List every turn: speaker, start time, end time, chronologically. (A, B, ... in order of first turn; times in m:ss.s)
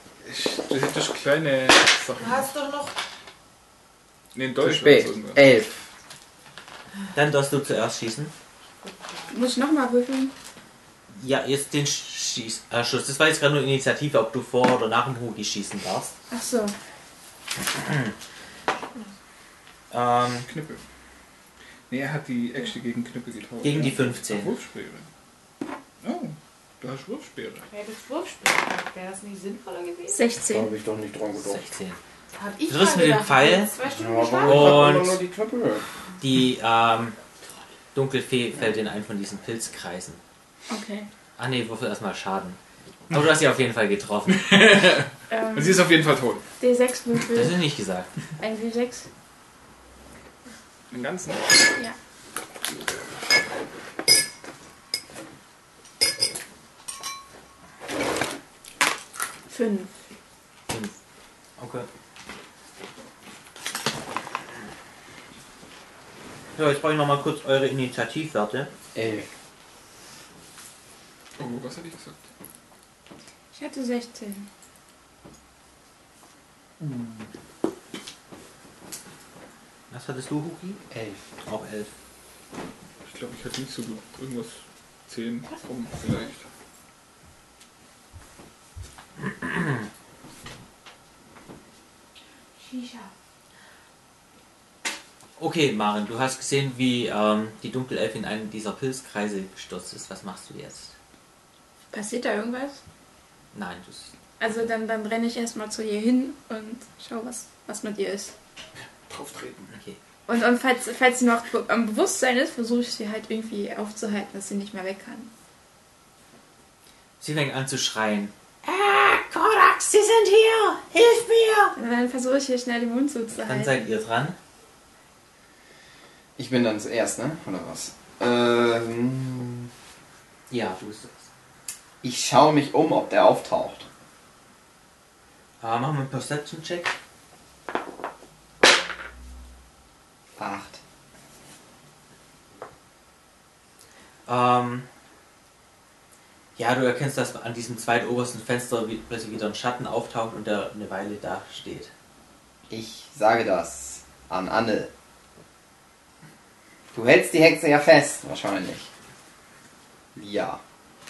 0:00.2-0:02.5 A
0:02.2-0:03.0 B
0:04.4-0:05.4 A
0:04.6-0:05.9 C
0:07.1-0:08.3 D
0:08.8-0:09.4 B
0:09.3-0:10.3 E
0:11.1-0:16.2 D
0:16.3-0:16.8 E
0:17.7-0:18.1 D
0:18.8-0:19.2 B
0:19.9-0:20.5 D
0:20.5-0:20.8 A
0:21.9-0:25.1 A
0:23.6-0:24.5 D
0:26.0-0:27.7 A
0:27.7-0:30.3 B
0:30.1-0:30.7 E
0:30.4-0:31.6 C
0:31.4-0:32.0 D
0:32.4-0:34.9 B
0:32.7-0:33.7 D
0:33.9-0:35.9 C
0:34.4-0:35.2 D
0:36.2-0:37.2 D
0:37.9-0:40.2 D
0:40.7-0:41.1 E
0:41.4-0:42.6 D
0:43.1-0:44.5 D
0:44.3-0:46.4 A
0:45.3-0:45.9 E
0:46.6-0:47.6 E
0:47.3-0:48.1 D
0:48.4-0:49.1 E
0:50.9-0:51.7 A
0:59.5-0:59.9 E
1:00.7-1:01.0 D
1:01.6-1:01.9 D
1:06.6-1:08.7 D
1:09.0-1:09.3 C
1:11.4-1:12.2 A
1:13.5-1:14.5 E
1:16.8-1:17.3 A
1:19.9-1:20.8 D
1:20.9-1:21.2 C
1:21.4-1:21.9 D
1:23.0-1:26.4 A
1:25.5-1:26.3 B
1:29.2-1:29.9 D
1:32.6-1:33.1 B
1:35.4-1:41.0 D
1:41.9-1:42.8 E
1:43.5-1:44.1 D
1:44.4-1:48.4 E
1:49.1-1:49.7 A
1:49.7-1:50.0 D
1:50.3-1:55.3 E
1:57.2-2:01.8 D
2:01.8-2:03.8 E
2:03.4-2:04.4 D
2:06.4-2:09.7 C
2:10.5-2:11.3 D
2:12.0-2:13.9 C
2:15.6-2:16.9 D
2:20.4-2:20.8 C
2:24.3-2:24.9 D
2:26.6-2:31.9 D
2:32.7-2:34.9 C
2:36.9-2:38.9 C
2:40.2-2:40.6 C